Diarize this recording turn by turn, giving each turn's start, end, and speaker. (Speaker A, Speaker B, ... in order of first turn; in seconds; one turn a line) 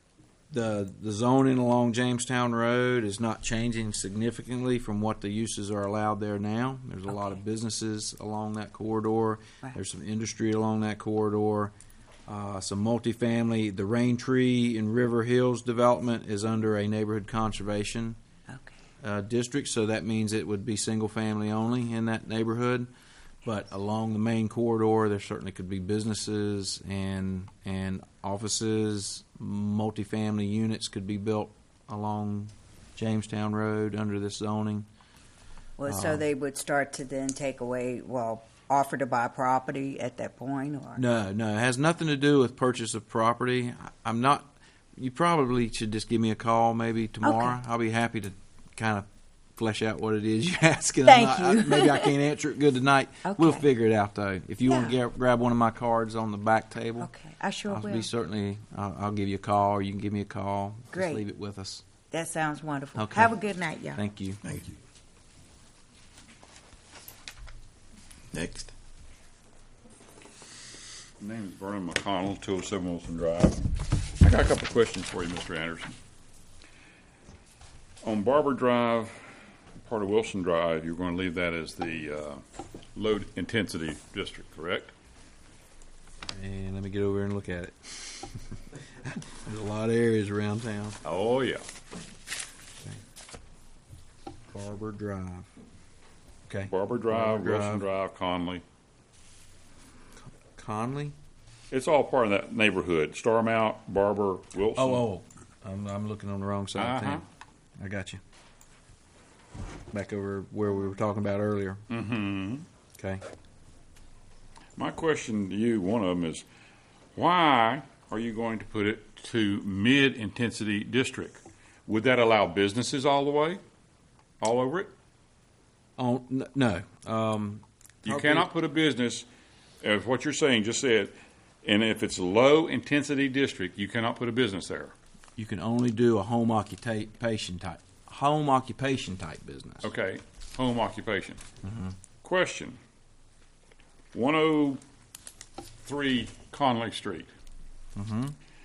Speaker A: 0.5-11.7
Speaker A: 12.3-18.2
Speaker B: 18.5-18.7
Speaker A: 19.0-22.9
Speaker A: 23.4-34.9
Speaker B: 35.8-41.0
Speaker A: 35.9-36.2
Speaker A: 41.0-57.1
Speaker B: 47.2-47.5
Speaker B: 51.0-52.2
Speaker B: 53.2-53.7
Speaker B: 54.7-55.0
Speaker B: 57.0-58.1
Speaker A: 57.7-61.9
Speaker B: 60.9-61.2
Speaker B: 62.1-64.0
Speaker A: 63.0-63.4
Speaker A: 64.0-64.6
Speaker A: 68.3-68.7
Speaker C: 71.2-75.9
Speaker C: 78.0-79.1
Speaker C: 79.9-82.4
Speaker C: 83.0-84.9
Speaker A: 86.3-91.0
Speaker C: 91.0-91.6
Speaker A: 94.5-95.5
Speaker A: 96.5-97.8
Speaker C: 96.7-98.6
Speaker A: 100.3-101.1
Speaker C: 101.7-105.0
Speaker A: 104.8-107.2
Speaker C: 106.8-107.2
Speaker A: 107.8-108.2
Speaker A: 109.9-111.8
Speaker C: 111.9-112.7
Speaker A: 113.0-113.2
Speaker C: 114.8-116.5
Speaker C: 117.2-123.6
Speaker C: 124.4-124.9
Speaker A: 126.0-128.5
Speaker C: 128.0-129.3
Speaker C: 129.8-134.9
Speaker A: 135.4-139.9
Speaker C: 139.8-141.4
Speaker A: 141.6-141.9
Speaker C: 142.2-142.8
Speaker C: 144.1-144.8
Speaker C: 145.8-147.3
Speaker A: 148.0-148.3